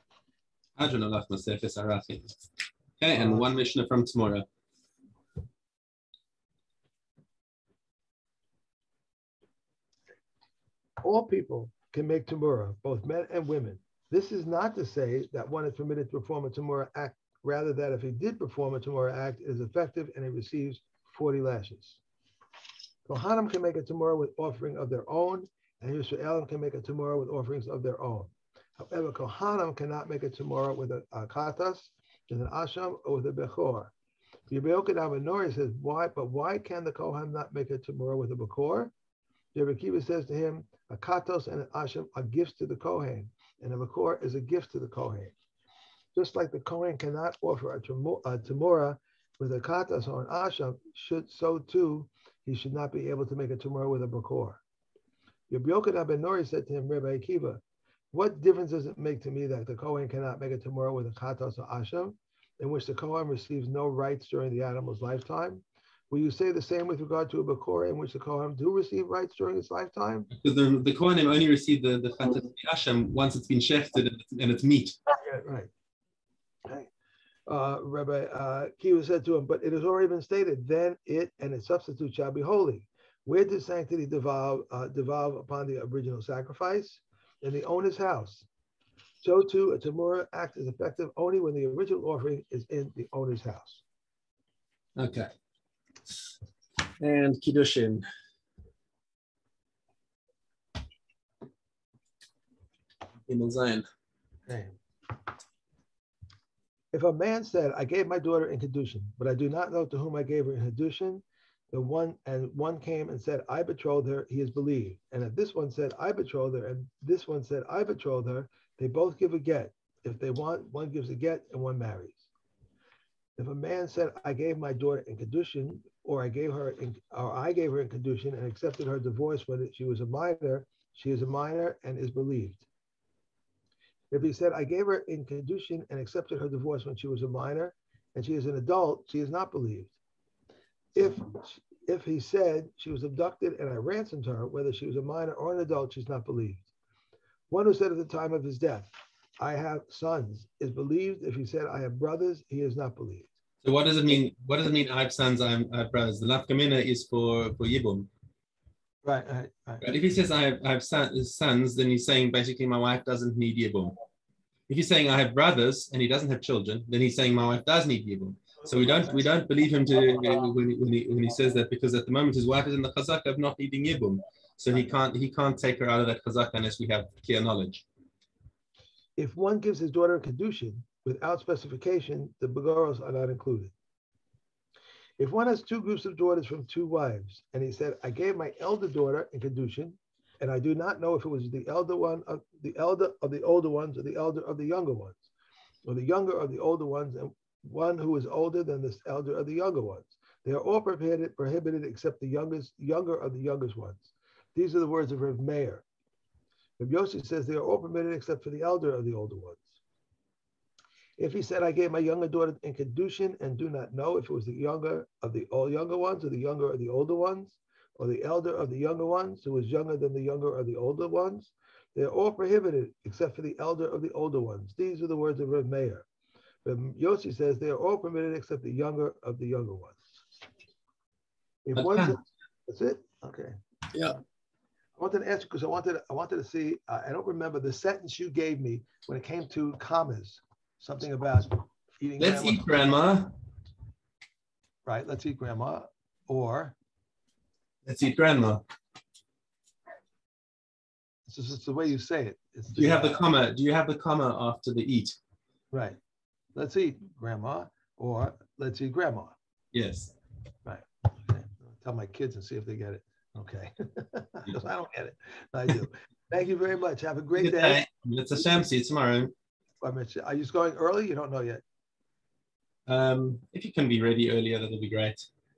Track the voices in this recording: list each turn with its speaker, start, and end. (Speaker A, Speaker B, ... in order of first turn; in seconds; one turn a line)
Speaker A: 0.8-2.4
Speaker A: 3.0-4.5
Speaker B: 3.1-3.5
Speaker B: 11.0-22.0
Speaker B: 23.1-33.9
Speaker B: 34.5-38.9
Speaker B: 39.5-45.3
Speaker B: 46.1-54.6
Speaker B: 55.5-57.6
Speaker B: 58.1-70.3
Speaker A: 70.3-75.0
Speaker B: 75.1-75.7
Speaker B: 77.5-88.5
Speaker B: 89.2-93.8
Speaker A: 95.0-95.3
Speaker A: 97.0-98.1
Speaker A: 103.3-103.9
Speaker B: 104.5-104.8
Speaker B: 106.9-122.3
Speaker B: 123.4-132.7
Speaker B: 134.1-139.9
Speaker B: 140.9-146.7
Speaker B: 147.5-153.3
Speaker A: 153.6-158.1
Speaker B: 159.0-159.9
Speaker A: 159.8-164.0
Speaker A: 164.7-177.8
Speaker B: 179.2-183.7
Speaker B: 185.2-195.3
Speaker B: 195.9-205.8
Speaker B: 206.8-209.8
Speaker B: 211.2-226.1
Speaker B: 226.6-230.2
Speaker B: 231.7-233.6
Speaker A: 231.8-232.2
Speaker A: 233.9-234.2
Speaker B: 235.0-242.9
Speaker A: 242.2-243.3
Speaker B: 244.8-246.8
Speaker A: 247.8-248.6
Speaker B: 251.3-253.2
Speaker A: 252.7-255.2
Speaker B: 255.7-256.0
Speaker B: 256.6-259.4
Speaker A: 259.7-260.1
Speaker B: 260.6-267.8
Speaker A: 267.4-269.3
Speaker B: 269.8-271.6
Speaker A: 272.9-275.3